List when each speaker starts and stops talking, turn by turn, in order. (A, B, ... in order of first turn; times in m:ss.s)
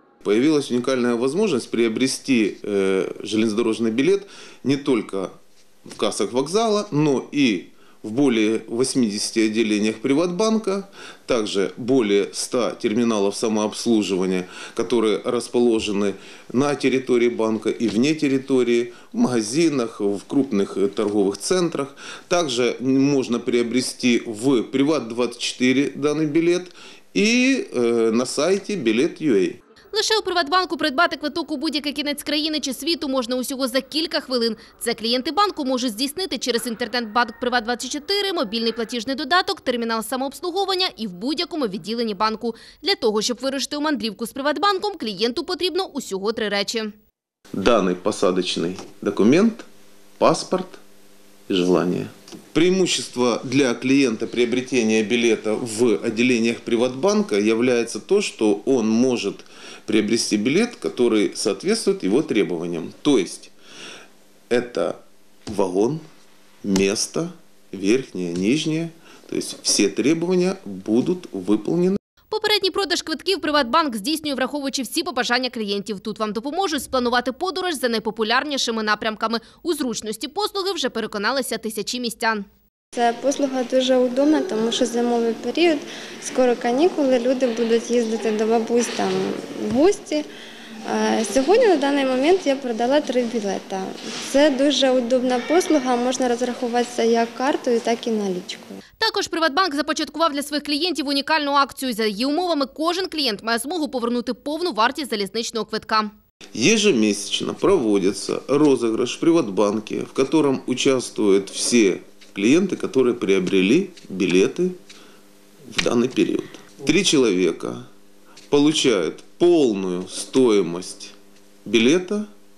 0:00.2-0:05.3 A
0:05.9-0:29.6 A
0:29.9-0:46.9 B
0:47.5-0:49.6 A
0:50.2-0:50.8 A
0:51.5-1:03.5 A
1:04.5-1:06.0 A
1:06.6-1:12.0 A
1:12.3-1:22.4 B
1:23.0-1:30.2 C
1:30.9-1:38.7 C
1:39.0-1:46.1 B
1:46.5-1:54.8 A
1:55.7-1:57.9 A
1:58.5-2:01.1 A
2:01.6-2:02.3 A